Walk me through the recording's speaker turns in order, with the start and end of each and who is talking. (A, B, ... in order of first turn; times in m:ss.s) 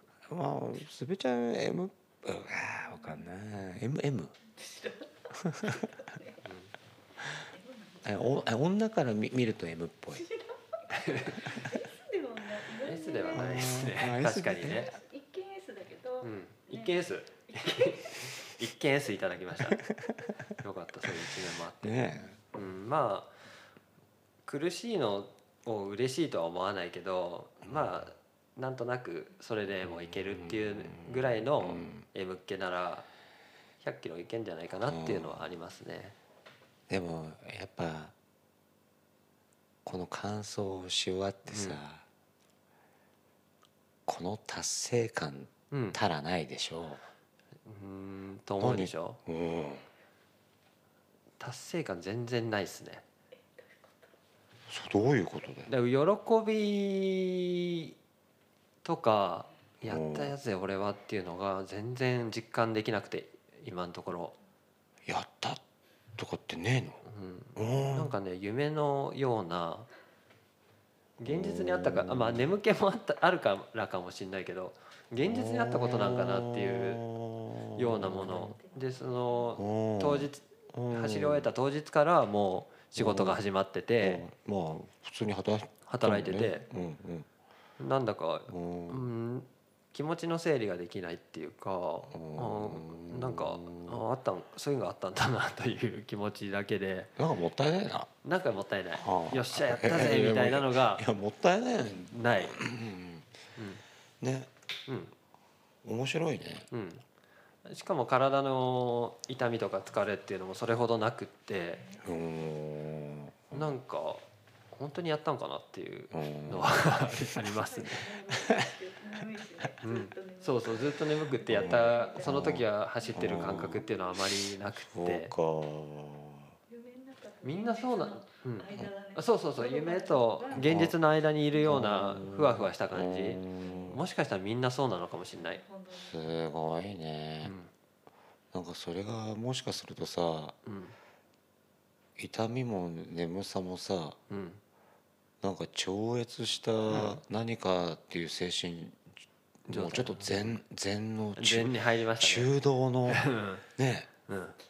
0:00.3-0:04.3 A
0:04.6-0:06.4 B
0:05.4-0:05.9 A
0:06.4-0:06.7 C
0:07.2-0:08.5 B
0:08.0-0:10.3 A
0:10.2-0:13.9 B
0:10.9-0:11.4 C
0:12.8-0:14.9 C
0:13.3-0:14.9 A
0:14.6-0:18.3 B
0:16.2-0:19.8 C
0:19.9-0:20.4 A
0:20.6-0:22.0 C
0:21.8-0:22.4 A
0:22.5-0:23.4 C
0:24.5-0:33.1 C
0:27.7-0:28.0 A
0:30.0-0:32.0 A
0:33.8-0:36.2 C
0:34.9-0:35.4 A
0:36.9-0:38.1 A
0:39.8-0:42.0 A
0:41.5-0:41.8 C
0:44.1-0:47.0 A
0:45.7-0:46.0 C
0:47.7-0:49.2 C
0:48.6-0:49.8 A
0:51.4-0:53.0 C
0:53.6-0:54.0 B
0:54.7-0:55.7 A
0:55.7-0:58.0 C
0:58.8-1:04.4 C
0:59.8-1:00.4 A
1:05.1-1:05.6 A
1:06.2-1:07.0 A
1:07.0-1:09.9 C
1:07.6-1:08.2 A
1:11.2-1:17.0 C
1:11.2-1:12.5 A
1:15.2-1:18.6 A
1:17.8-1:24.2 C
1:18.1-1:19.6 B
1:19.6-1:21.5 A
1:23.0-1:23.4 A
1:24.0-1:27.3 A
1:25.9-1:26.6 C
1:27.8-1:37.1 C
1:28.5-1:29.0 A
1:32.1-1:34.0 A
1:37.2-1:38.1 A
1:38.2-1:41.0 C
1:39.0-1:43.3 A
1:42.1-1:42.6 C
1:43.6-1:43.8 C
1:44.2-1:44.5 A
1:44.9-1:45.1 C
1:45.8-1:46.7 A
1:46.7-1:47.0 C
1:47.6-1:51.8 C
1:52.0-1:53.8 A
1:53.5-1:58.1 C
1:56.1-1:57.2 A
1:57.4-2:03.9 B
1:59.8-2:05.3 C
2:01.5-2:03.9 A
2:04.9-2:06.5 A
2:06.7-2:10.9 B
2:07.4-2:15.6 C
2:10.5-2:11.0 A
2:11.6-2:14.0 A
2:13.6-2:14.0 B
2:15.4-2:16.4 B
2:15.9-2:17.6 A
2:17.4-2:17.7 C
2:18.5-2:20.6 A
2:20.6-2:21.0 C
2:22.2-2:24.2 A
2:24.3-2:24.6 C
2:25.4-2:29.1 A
2:26.9-2:27.2 C
2:29.6-2:34.1 A
2:29.7-2:30.6 C
2:31.4-2:32.5 C
2:33.1-2:33.6 C
2:34.3-2:34.6 C